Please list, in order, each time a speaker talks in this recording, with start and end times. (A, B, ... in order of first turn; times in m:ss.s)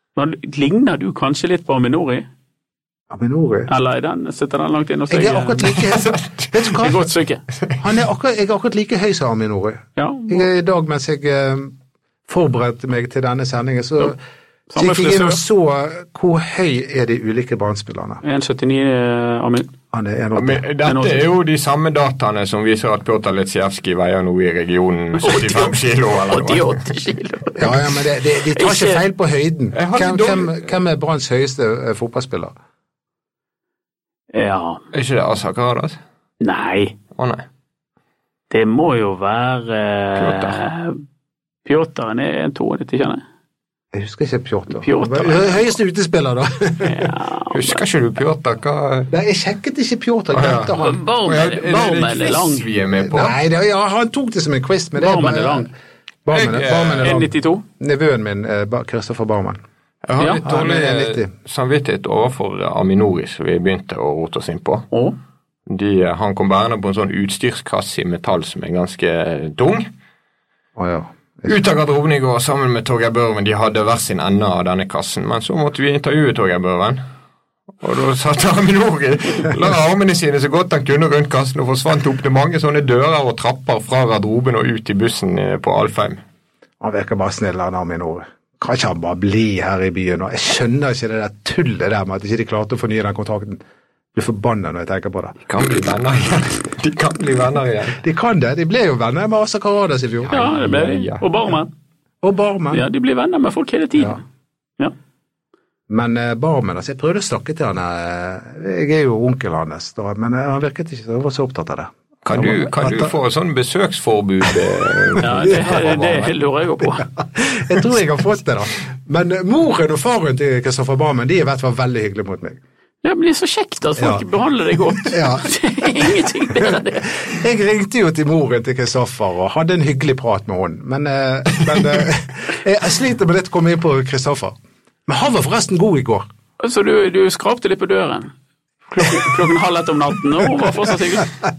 0:00.2-0:02.3 A
0:03.1-0:03.7 B
0:03.7-0:05.8 A
0:05.1-0:07.1 B
0:05.6-0:06.7 C
0:06.8-0:07.4 A
0:07.8-0:11.7 B
0:10.0-0:10.5 A
0:12.3-0:14.2 B
0:14.7-0:15.4 A
0:14.8-0:18.2 B
0:18.2-0:19.7 A
0:19.9-0:20.6 B
0:20.4-0:26.8 C
0:20.8-0:21.3 A
0:25.2-0:27.7 A
0:27.6-0:32.5 B
0:28.5-0:29.0 A
0:29.7-0:30.7 C
0:34.3-0:34.8 A
0:34.9-0:36.0 C
0:36.4-0:37.0 A
0:37.2-0:37.5 C
0:38.5-0:41.0 A
0:40.2-0:40.6 C
0:41.6-0:43.2 A
0:43.9-0:47.1 B
0:44.8-0:45.7 A
0:46.8-0:47.8 A
0:47.5-0:49.1 C
0:49.1-0:50.9 B
0:50.3-0:53.4 C
0:50.8-0:52.7 A
0:53.0-0:55.7 B
0:55.0-0:55.7 A
0:56.3-0:59.6 B
0:56.3-0:57.2 C
0:57.0-0:57.6 A
1:00.1-1:04.9 C
1:00.2-1:00.4 A
1:00.4-1:01.3 B
1:04.9-1:05.2 A
1:05.7-1:09.9 C
1:10.8-1:11.6 B
1:11.5-1:17.0 C
1:17.8-1:26.2 C
1:26.8-1:33.6 B
1:34.1-1:35.4 B
1:35.5-1:38.0 C
1:38.0-1:40.4 B
1:40.3-1:41.2 C
1:40.3-1:41.7 A
1:42.2-1:42.9 B
1:42.7-1:44.2 A
1:45.9-1:53.1 B
1:52.2-1:56.3 C
1:55.2-1:57.0 A
1:55.5-1:55.8 B
1:57.1-2:02.6 B
2:03.0-2:07.1 A
2:04.0-2:04.2 B
2:05.1-2:05.5 B
2:06.5-2:14.6 B
2:15.1-2:16.3 B
2:16.6-2:18.3 A
2:18.9-2:21.3 A